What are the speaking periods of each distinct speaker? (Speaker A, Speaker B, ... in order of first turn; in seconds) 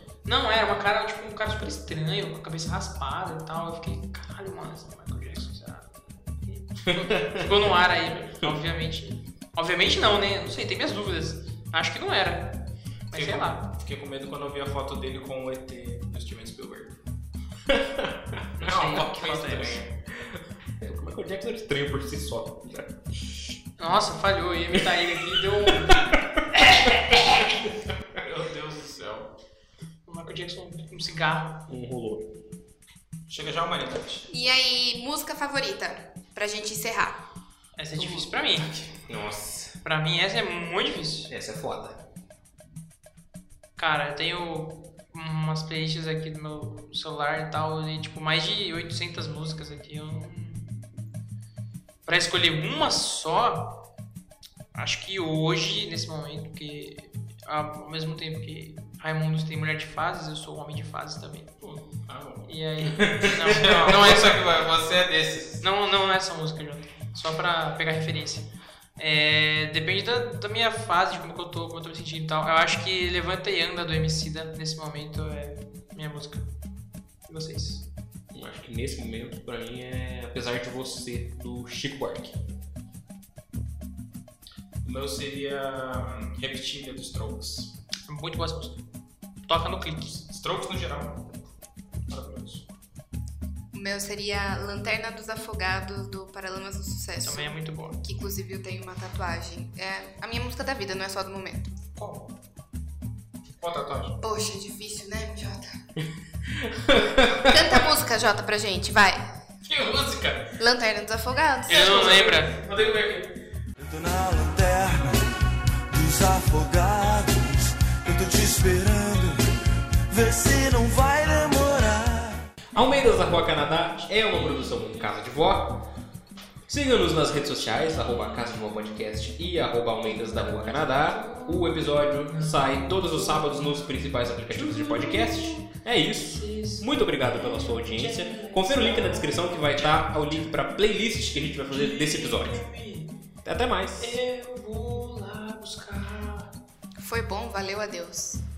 Speaker A: 0.2-13.7, 18.6-19.8, 23.8-26.0, 26.5-26.9, 30.1-31.6, 37.8-38.7, 39.8-41.3, 43.8-50.9, 52.0-53.8, 54.7-61.5, 62.5-64.4, 65.6-76.5, 77.3-77.8, 88.1-88.8, 89.5-90.2, 97.2-98.0, 111.7-112.5, 124.3-125.1, 130.1-140.4, 141.7-143.1, 144.0-146.5
Speaker B: 7.0-7.5, 17.7-18.4, 20.1-23.3, 24.7-27.6, 31.7-32.3, 39.1-39.7, 41.3-42.0, 78.3-82.3, 106.5-107.8, 122.7-125.8, 126.7-142.6, 143.4-144.2
Speaker C: 13.1-16.9, 18.6-19.9, 28.1-29.3, 33.3-34.3, 38.7-39.0, 61.6-62.5, 63.5-65.6, 84.8-87.7, 90.2-91.2, 92.1-92.6, 102.0-102.2, 103.6-104.2, 109.7-110.5, 111.7-113.3
Speaker D: 34.3-37.2, 93.7-101.8, 104.2-105.7, 107.5-109.2, 110.6-112.2, 147.0-148.4
Speaker E: 113.8-115.2, 115.9-119.5, 120.1-122.4